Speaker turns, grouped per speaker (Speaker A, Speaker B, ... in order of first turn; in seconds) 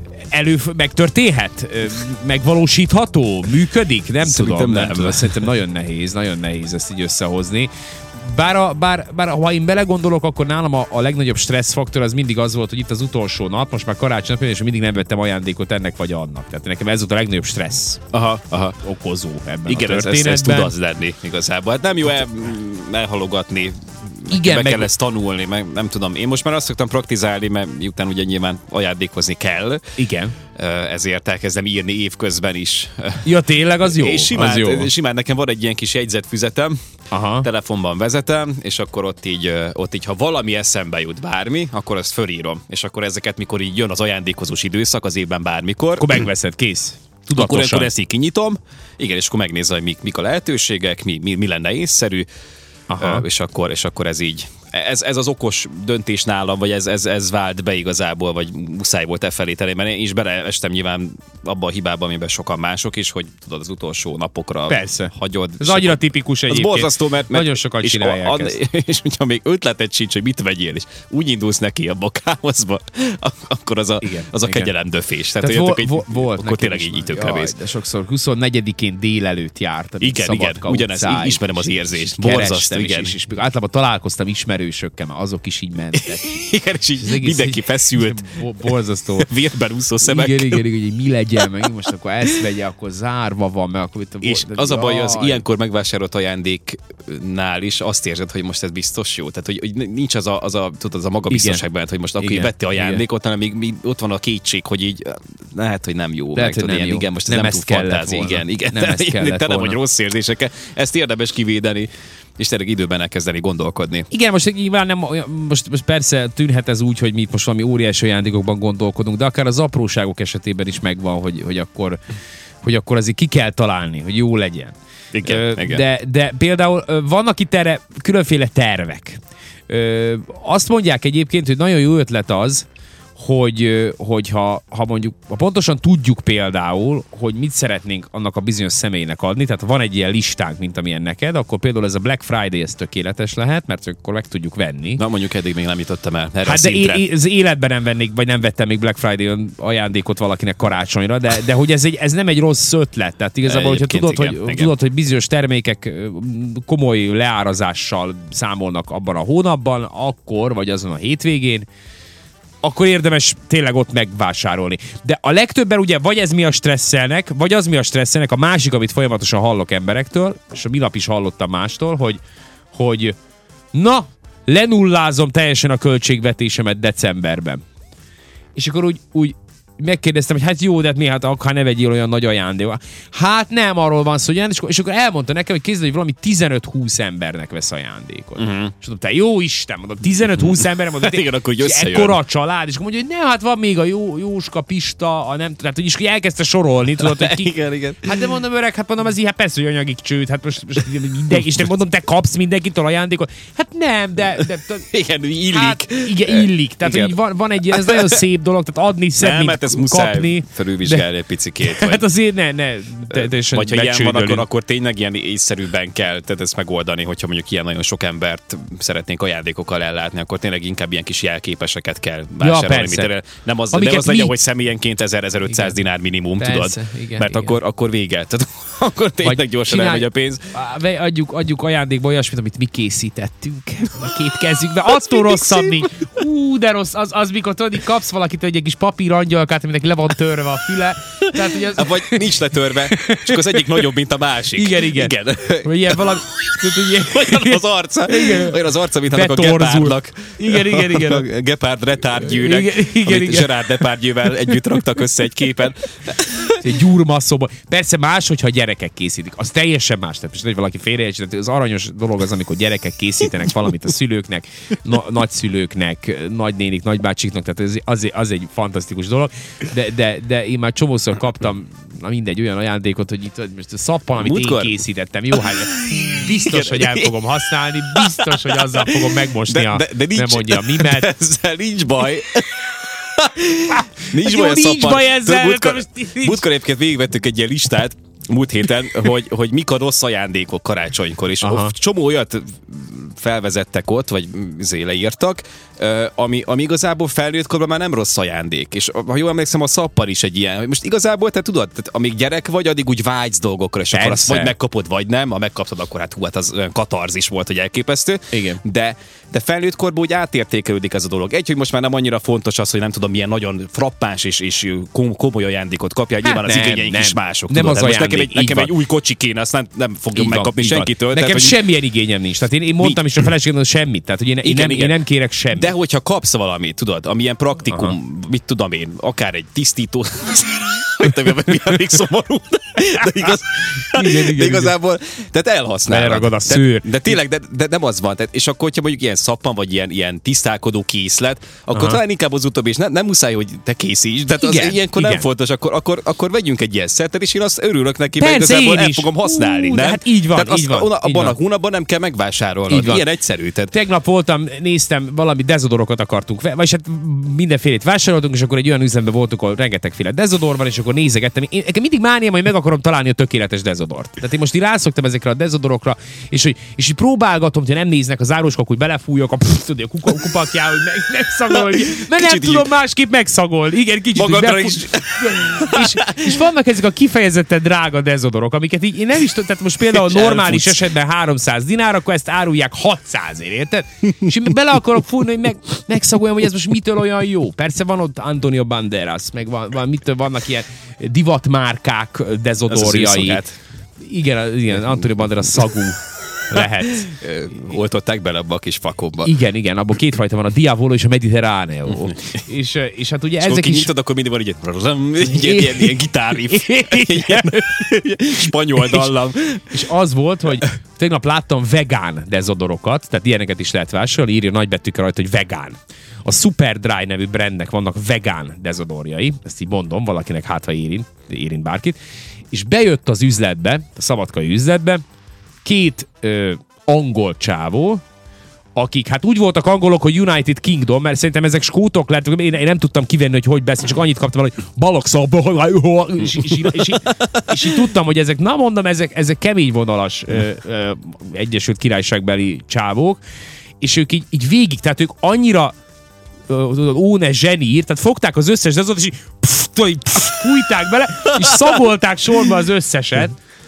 Speaker A: 0.3-18.0, 18.8-20.7, 24.3-24.9, 30.0-30.3, 33.2-34.9, 37.1-37.5, 46.0-47.9, 52.9-53.2, 64.7-68.5, 74.0-74.7, 75.4-86.3, 87.0-89.3, 90.0-95.4, 101.3-101.6, 102.2-103.0, 106.3-109.8, 114.1-122.0, 122.6-145.0, 146.4-161.7, 162.6-173.2, 173.7-177.6, 178.5-204.9, 205.5-211.0, 211.6-214.4, 222.4-223.1, 223.7-224.3, 225.5-225.8, 226.4-227.5, 229.2-243.8, 244.6-251.2, 252.2-253.8, 256.6-281.1, 283.7-286.4, 291.4-291.7, 303.9-304.5, 308.3-308.6, 316.2-318.7, 320.1-325.7, 333.9-334.7, 335.9-337.1, 341.7-342.0, 344.4-345.3, 348.2-351.4, 352.7-353.0, 353.7-393.4, 394.0-397.1, 399.2-403.9, 405.2-409.1, 409.7-422.0, 422.5-425.0, 425.6-428.0, 428.7-443.2, 443.8-445.7, 446.5-453.3
Speaker B: 4.2-5.5, 18.1-18.8, 19.7-29.9, 30.5-36.8, 37.4-46.3, 47.3-52.3, 53.0-77.5, 80.0-83.2, 85.9-88.2, 89.2-90.7, 91.4-91.7, 94.2-114.1, 125.1-125.8, 145.0-147.0, 153.4-154.7, 188.3-188.7, 190.5-192.2, 197.0-198.3, 204.9-207.2, 207.7-208.2, 209.2-212.0, 213.1-230.4, 235.1-235.8, 241.3-246.2, 246.8-256.7, 274.2-274.8, 275.9-321.6, 324.4-325.0, 325.5-353.7, 371.5-372.7, 374.1-376.4, 379.9-380.9, 392.7-393.6, 396.9-399.3, 401.9-402.4, 403.4-409.9, 436.4-437.7, 451.5-451.8